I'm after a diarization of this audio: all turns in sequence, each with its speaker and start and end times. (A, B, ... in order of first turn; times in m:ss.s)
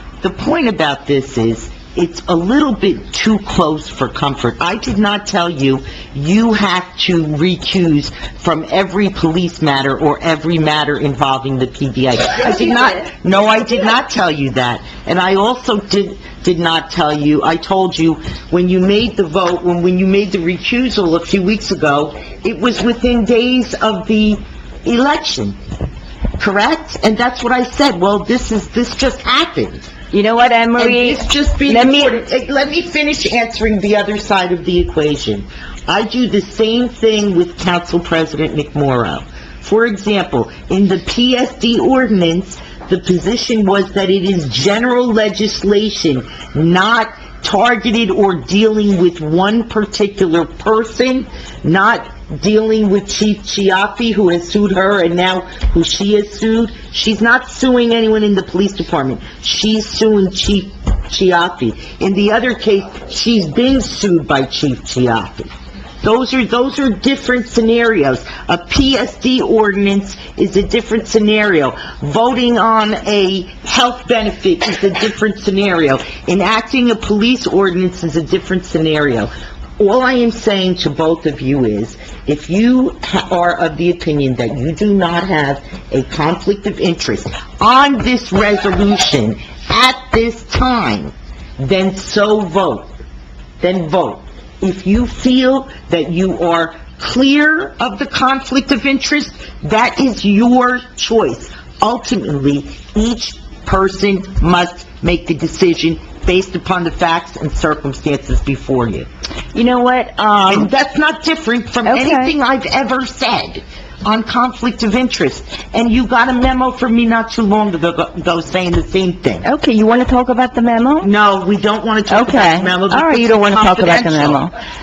0:00.2-0:25.6 A
0:12.4-0:13.0 B
0:26.4-0:29.8 A
0:30.1-0:32.2 B
0:30.8-1:05.5 A
1:06.0-1:32.9 A
1:33.6-1:49.1 A
1:49.5-1:50.7 B
1:50.5-1:59.4 A
1:51.8-1:52.3 B
1:59.4-2:01.1 B
2:01.0-2:04.4 A
2:02.1-2:04.5 B